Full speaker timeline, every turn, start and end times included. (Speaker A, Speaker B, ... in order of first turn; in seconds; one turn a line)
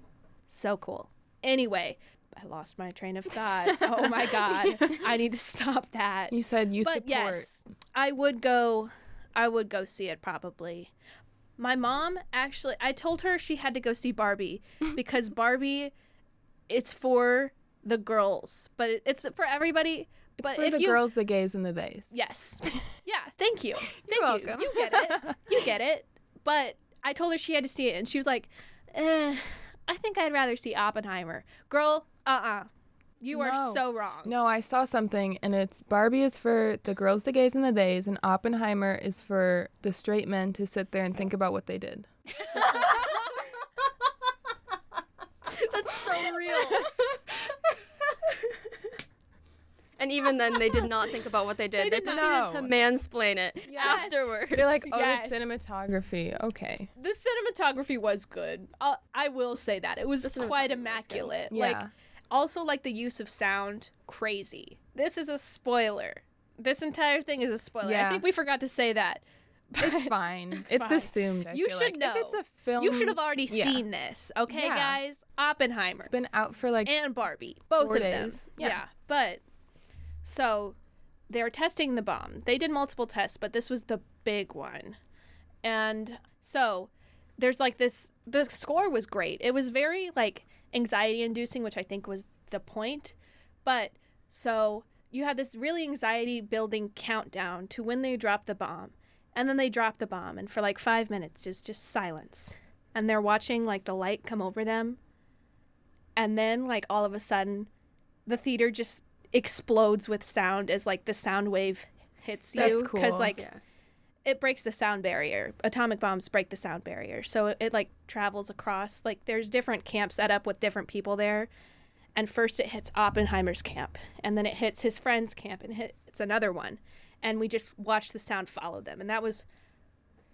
Speaker A: 0.5-10.9
Speaker B: 6.3-7.5
Speaker A: 11.6-15.9
Speaker A: 16.7-21.0
Speaker B: 20.4-22.1
Speaker A: 22.1-32.7
Speaker B: 23.9-25.4
Speaker A: 33.2-34.3
Speaker B: 33.3-42.1
Speaker A: 42.4-43.1
Speaker C: 42.5-43.5
Speaker C: 45.5-48.7
Speaker C: 50.0-54.8
Speaker A: 51.8-52.3
Speaker B: 52.1-52.7
Speaker A: 53.7-54.2
Speaker B: 53.8-56.9
Speaker A: 54.9-55.5
Speaker A: 57.0-76.1
Speaker C: 60.2-61.3
Speaker B: 61.5-61.9
Speaker B: 67.8-68.2
Speaker B: 69.8-73.8
Speaker B: 74.5-75.0
Speaker B: 76.0-76.9
Speaker A: 76.8-79.4
Speaker B: 77.8-78.8
Speaker A: 80.2-80.8
Speaker A: 81.3-85.0
Speaker A: 85.6-105.0
Speaker A: 106.2-107.7
Speaker A: 108.3-113.5
Speaker C: 112.5-113.6
Speaker B: 112.6-113.4
Speaker A: 114.2-121.5
Speaker A: 122.2-129.4